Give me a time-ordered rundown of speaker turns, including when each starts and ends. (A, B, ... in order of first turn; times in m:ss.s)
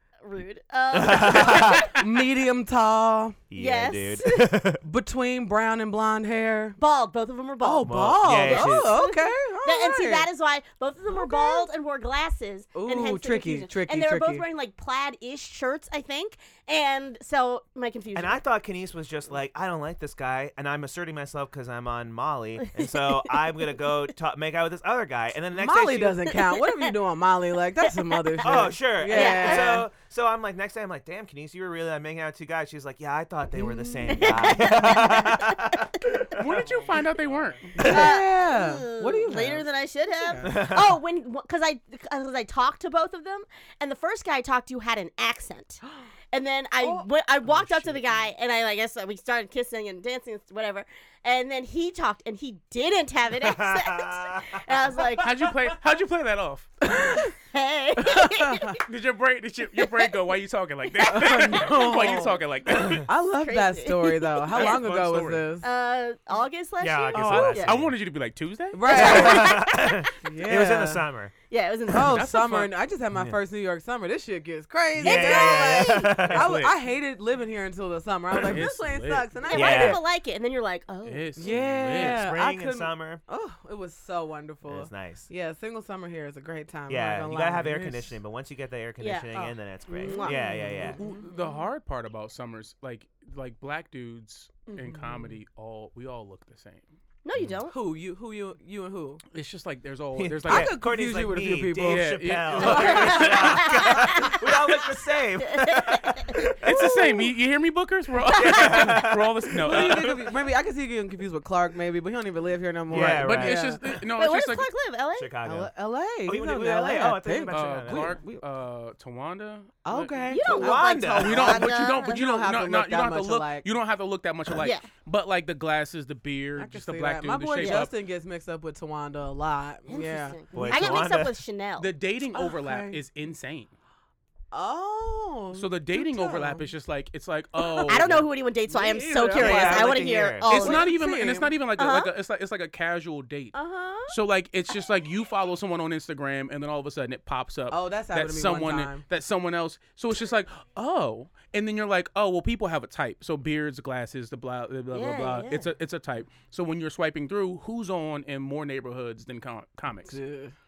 0:00.2-0:01.9 A
0:00.9-0:01.9 B
0:01.3-0:03.4 C
0:03.5-0:04.8 B
0:03.5-0:04.5 A
0:04.8-0:06.8 C
0:06.8-0:18.4 A
0:07.6-0:10.3 C
0:07.8-0:08.9 B
0:11.1-0:11.7 C
0:12.7-0:14.4 C
0:18.1-0:26.2 B
0:25.6-0:29.9 C
0:28.4-0:36.6 B
0:29.1-0:29.8 A
0:33.6-0:36.2 A
0:36.4-0:37.7 D
0:37.7-0:39.6 C
0:37.8-0:45.8 A
0:37.8-0:38.0 B
0:40.2-0:40.5 C
0:40.4-0:41.0 B
0:46.3-0:55.3 A
0:46.8-0:47.1 C
0:47.5-0:48.0 D
0:53.4-0:55.0 B
0:55.2-0:56.9 D
0:56.8-0:57.3 C
0:57.2-0:58.8 A
0:58.0-0:58.7 C
0:58.8-1:03.1 D
1:01.0-1:05.6 C
1:03.4-1:04.7 A
1:04.5-1:05.4 D
1:05.6-1:07.8 A
1:06.8-1:07.9 B
1:07.1-1:09.3 D
1:08.7-1:09.6 C
1:08.9-1:10.1 A
1:08.9-1:11.3 B
1:10.2-1:11.0 C
1:11.5-1:12.2 A
1:11.9-1:20.0 C
1:12.1-1:12.7 D
1:13.1-1:13.4 B
1:15.0-1:16.6 B
1:15.0-1:16.2 A
1:16.3-1:16.7 D
1:18.3-1:19.3 D
1:19.4-1:21.4 A
1:19.5-1:20.0 B
1:21.0-1:22.3 D
1:21.4-1:28.2 C
1:21.5-1:23.2 B
1:24.6-1:25.3 B
1:26.9-1:31.0 B
1:29.0-1:31.3 A
1:29.3-1:31.5 C
1:31.0-1:36.9 D
1:34.7-1:35.0 A
1:35.0-1:35.3 C
1:37.2-1:37.7 A
1:37.7-1:39.2 C
1:39.3-1:40.7 D
1:40.2-1:46.6 B
1:40.5-1:43.4 C
1:41.8-1:43.9 D
1:42.8-1:44.4 A
1:45.4-1:46.3 A
1:46.6-1:50.3 D
1:46.6-1:47.3 C
1:48.4-1:50.1 B
1:49.6-1:53.8 C
1:52.9-1:54.0 B
1:52.9-1:54.7 D
1:54.1-1:55.3 A
1:55.2-1:55.7 B
1:55.4-1:58.4 C
1:56.2-1:58.2 B
1:57.5-2:00.2 D
1:59.8-2:03.7 C
2:00.3-2:02.2 A
2:00.4-2:01.7 B
2:01.2-2:07.9 D
2:04.6-2:04.9 A
2:06.6-2:11.0 C
2:07.6-2:07.9 A
2:09.9-2:11.9 A
2:10.5-2:11.4 B
2:11.8-2:13.7 D
2:12.3-2:13.0 C
2:14.5-2:16.7 C
2:15.5-2:18.2 D
2:17.6-2:18.1 C
2:17.8-2:20.9 A
2:18.7-2:21.5 C
2:19.3-2:20.4 B
2:20.5-2:23.6 D
2:21.8-2:22.1 A
2:23.5-2:24.1 A
2:24.1-2:40.2 D
2:27.7-2:29.0 C
2:34.9-2:35.7 A
2:40.0-2:40.5 C